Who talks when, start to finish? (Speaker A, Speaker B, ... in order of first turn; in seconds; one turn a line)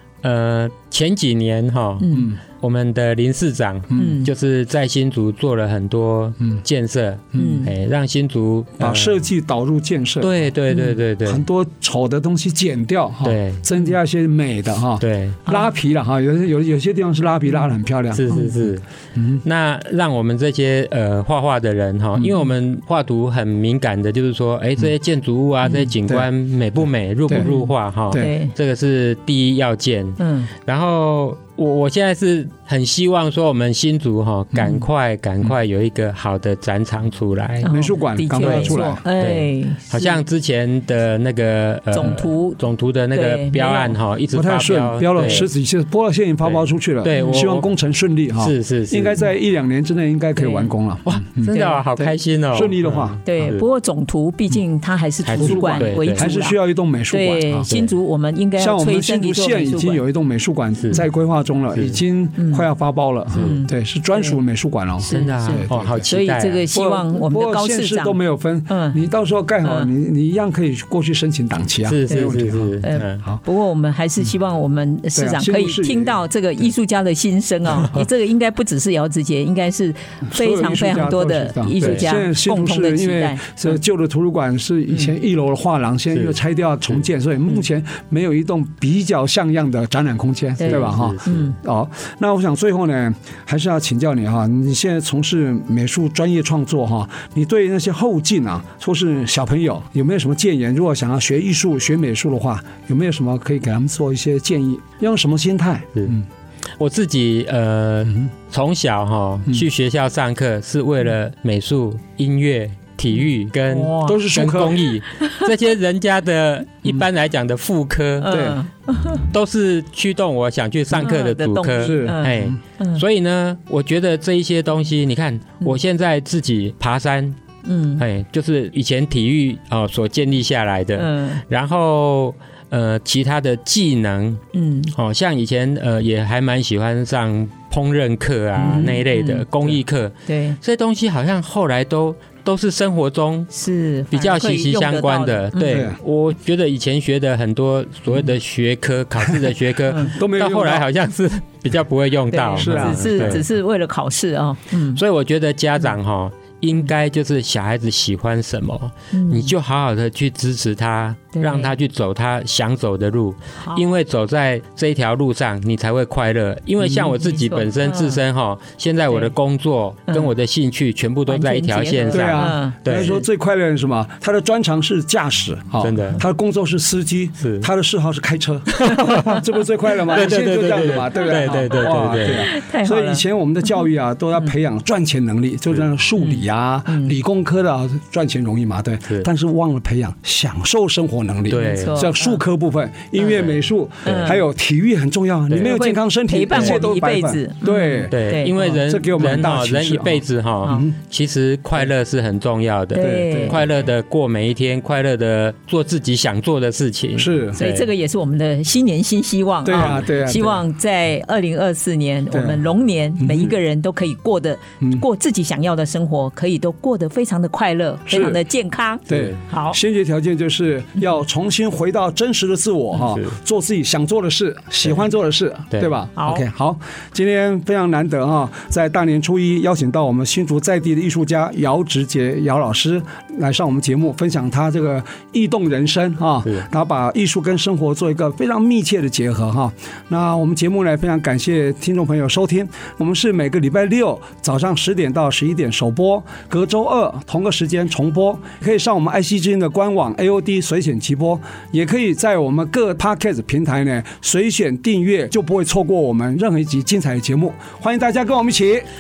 Speaker A: 0.2-9.2
Speaker B: 2.0-2.3
Speaker C: 2.1-2.4
Speaker C: 3.9-4.2
Speaker B: 4.0-4.3
Speaker C: 7.3-7.7
Speaker B: 7.4-7.7
Speaker C: 8.8-10.4
Speaker A: 10.2-11.4
Speaker B: 10.7-11.0
Speaker C: 11.2-19.4
Speaker A: 13.2-13.7
Speaker A: 15.0-15.4
Speaker A: 18.1-18.8
Speaker A: 19.4-37.7
Speaker B: 27.4-28.5
Speaker B: 30.2-30.5
Speaker C: 34.5-34.8
Speaker B: 37.6-40.2
Speaker C: 37.7-39.0
Speaker A: 38.4-45.5
Speaker B: 41.9-42.6
Speaker B: 43.1-44.0
Speaker C: 44.3-53.2
Speaker A: 46.5-47.7
Speaker B: 47.1-47.5
Speaker A: 48.4-49.2
Speaker B: 50.4-50.7
Speaker A: 51.1-53.6
Speaker B: 51.5-51.8
Speaker B: 53.2-56.6
Speaker A: 55.2-56.3
Speaker C: 55.4-57.7
Speaker B: 57.1-60.0
Speaker A: 57.7-58.0
Speaker C: 58.6-66.1
Speaker B: 62.4-62.7
Speaker B: 63.3-64.4
Speaker B: 65.0-68.2
Speaker A: 65.1-66.6
Speaker C: 66.7-73.4
Speaker B: 68.7-69.0
Speaker B: 69.6-69.9
Speaker A: 71.8-73.2
Speaker B: 72.1-83.8
Speaker C: 75.1-76.2
Speaker C: 80.3-106.3
Speaker A: 81.8-82.1
Speaker A: 86.1-86.4
Speaker B: 90.6-91.5
Speaker A: 90.7-91.4
Speaker A: 106.8-118.3
Speaker B: 113.7-114.2
Speaker C: 114.0-114.8
Speaker B: 118.2-119.3
Speaker C: 118.3-118.6
Speaker A: 119.2-127.4
Speaker B: 120.9-123.0
Speaker C: 121.8-122.6
Speaker B: 127.7-128.0
Speaker A: 128.0-134.4
Speaker B: 131.0-131.4
Speaker B: 134.5-134.9
Speaker A: 134.9-143.5
Speaker B: 138.6-139.5
Speaker B: 140.3-140.6
Speaker B: 143.5-145.8
Speaker A: 144.1-153.4
Speaker C: 145.7-146.0
Speaker C: 150.1-150.9
Speaker B: 152.3-155.0
Speaker C: 152.6-153.4
Speaker A: 154.9-173.2
Speaker B: 159.1-159.5
Speaker B: 161.4-161.7
Speaker B: 167.2-168.2
Speaker B: 169.1-169.3
Speaker B: 171.3-173.2
Speaker C: 172.1-200.9
Speaker A: 175.8-176.2
Speaker A: 177.4-177.7
Speaker A: 178.7-179.4
Speaker B: 178.9-179.3
Speaker A: 180.1-182.5
Speaker B: 181.2-183.7
Speaker B: 186.2-187.2
Speaker A: 191.5-192.1
Speaker B: 191.5-192.4
Speaker A: 193.2-193.5
Speaker B: 194.0-194.4
Speaker A: 194.1-194.4
Speaker A: 195.5-195.8
Speaker B: 195.6-198.6
Speaker A: 196.5-196.8
Speaker A: 198.1-207.9
Speaker B: 202.9-203.6
Speaker C: 203.0-203.7
Speaker C: 207.2-207.6
Speaker B: 207.6-219.8
Speaker C: 209.7-210.6
Speaker C: 212.3-212.7
Speaker C: 213.2-213.6
Speaker C: 218.1-218.4
Speaker C: 219.1-258.9
Speaker A: 219.1-219.4
Speaker A: 223.0-223.3
Speaker B: 226.2-226.4